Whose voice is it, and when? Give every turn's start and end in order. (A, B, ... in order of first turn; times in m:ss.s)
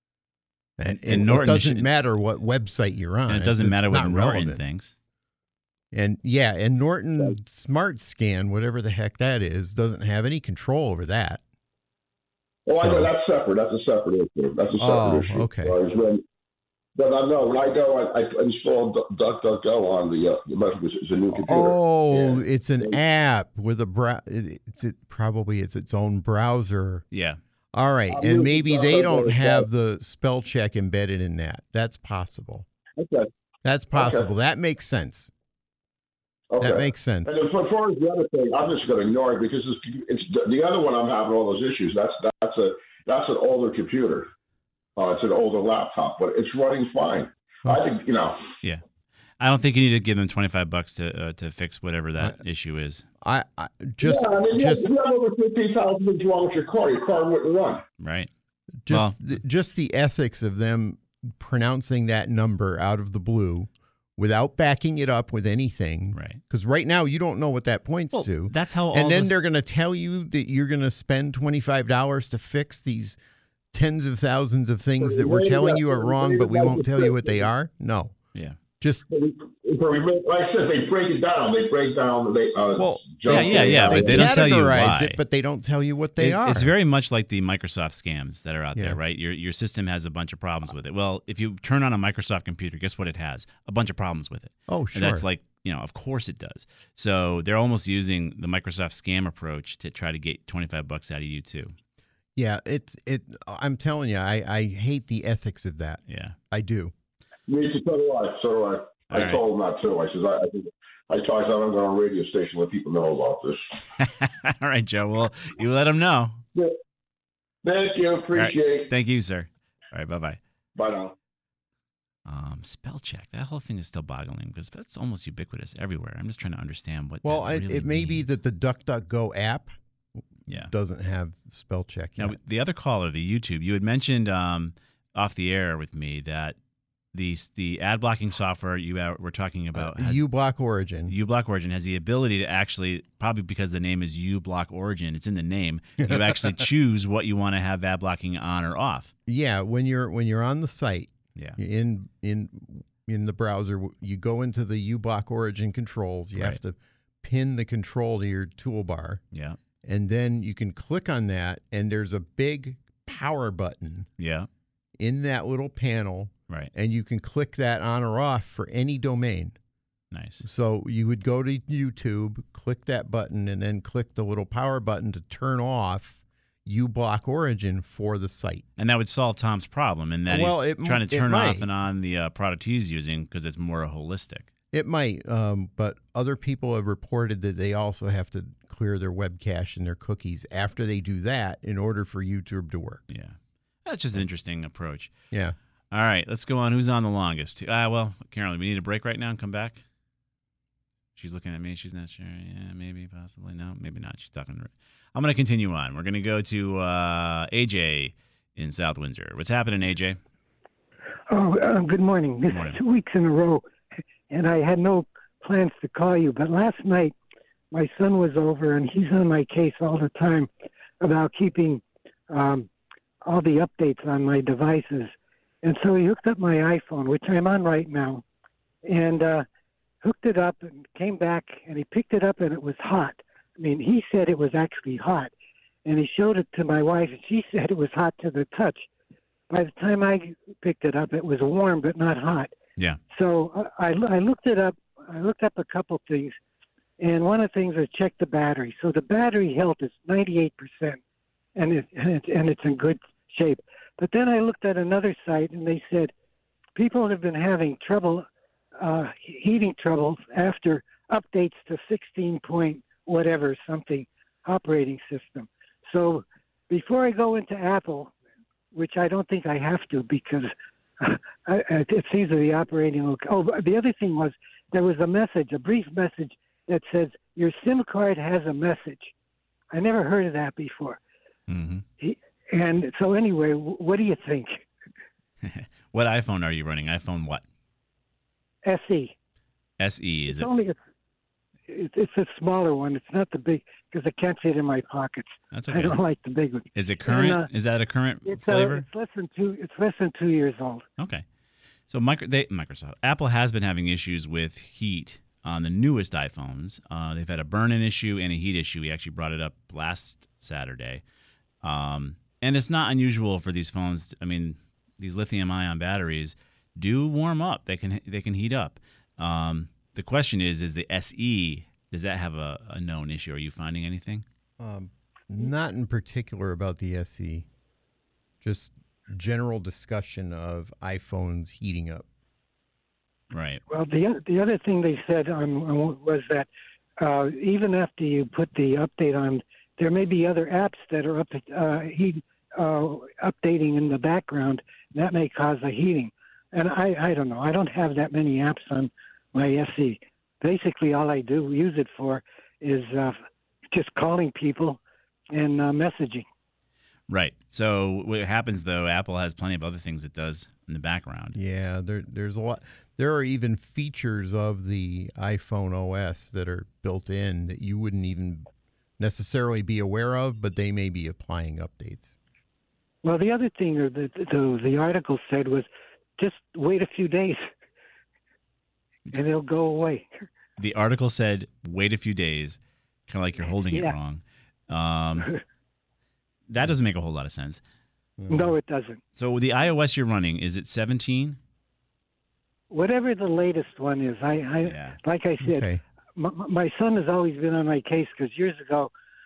0:00.8-0:04.6 A
0:00.8-0:01.9 B
0:03.3-0:04.9 B
0:05.9-0:11.4 A
0:12.7-0:16.2 C
0:12.7-0:13.1 A
0:14.8-0:15.8 A
0:17.0-0:23.0 C
0:21.3-0:27.0 A
0:27.1-0:27.4 B
0:27.7-0:32.6 A
0:28.1-0:29.7 C
0:33.0-0:33.3 C
0:33.6-0:35.3 A
0:33.9-0:34.3 C
0:36.5-0:44.3 C
0:36.6-0:37.4 A
0:45.0-0:48.4 C
0:49.4-0:53.0 B
0:53.2-0:54.9 A
0:54.0-0:57.8 C
0:58.0-0:58.3 B
0:58.8-1:13.2 A
0:58.9-0:59.2 B
1:06.1-1:06.4 B
1:08.1-1:09.3 B
1:13.7-1:18.2 A
1:15.0-1:17.5 C
1:18.8-1:19.0 A
1:19.1-1:24.5 C
1:22.8-1:26.7 A
1:23.3-1:25.2 B
1:26.2-1:41.7 B
1:34.7-1:35.2 A
1:42.4-1:46.9 A
1:46.1-1:46.4 B
1:47.5-1:53.6 C
1:49.1-1:49.4 B
1:54.0-1:56.4 B
1:57.6-1:58.9 C
1:58.4-2:00.4 B
2:00.7-2:01.1 C
2:02.2-2:08.2 B
2:07.2-2:09.7 A
2:10.6-2:12.4 A
2:12.2-2:16.6 B
2:17.1-2:20.2 B
2:19.8-2:21.1 A
2:21.1-2:29.1 B
2:26.0-2:26.6 A
2:29.3-2:39.2 A
2:39.3-2:39.6 B
2:39.8-2:44.1 A
2:44.2-2:44.5 B
2:45.0-2:49.6 A
2:50.1-2:50.4 B
2:50.4-2:58.6 A
2:58.8-3:04.5 B
3:00.3-3:01.7 A
3:04.7-3:13.0 A
3:13.1-3:15.1 B
3:15.3-3:15.6 A
3:15.9-3:19.8 B
3:21.2-3:30.2 B
3:31.3-3:33.6 D
3:32.5-3:32.8 B
3:34.3-3:37.1 D
3:37.7-3:40.5 D
3:41.0-3:42.7 D
3:43.2-3:48.2 D
3:48.8-3:49.4 D
3:50.0-3:55.3 D
3:55.8-3:58.9 D
3:59.5-4:02.5 D
4:03.1-4:06.4 D
4:07.0-4:11.0 D
4:11.6-4:16.1 D
4:16.8-4:18.2 D
4:18.8-4:28.1 D
4:28.7-4:39.1 D
4:39.7-4:41.0 D
4:41.5-4:41.8 B
4:42.0-4:44.6 D
4:45.4-4:47.4 B
4:48.6-4:49.1 D
4:49.8-4:50.5 B
4:50.3-4:50.8 D
4:51.7-4:57.5 D
4:55.5-4:56.0 B
4:56.7-4:58.9 B
4:58.2-5:00.8 D
5:01.0-5:01.2 B
5:01.9-5:11.0 B
5:11.6-5:24.2 B
5:24.6-5:27.5 A
5:28.4-5:32.1 A
5:33.3-5:33.6 B
5:33.7-5:36.5 D
5:37.0-5:53.2 D
5:53.7-5:54.8 D
5:55.3-5:56.2 D
5:57.1-6:01.4 B
6:01.4-6:08.5 A
6:09.0-6:12.2 A
6:13.0-6:17.4 D
6:19.1-6:20.3 D
6:20.6-6:25.3 B
6:23.7-6:24.0 D
6:26.5-6:27.6 B
6:28.2-6:28.6 A
6:28.3-6:29.0 D
6:29.1-6:31.4 B
6:32.7-6:38.9 D
6:34.6-6:35.0 B
6:35.4-6:35.8 A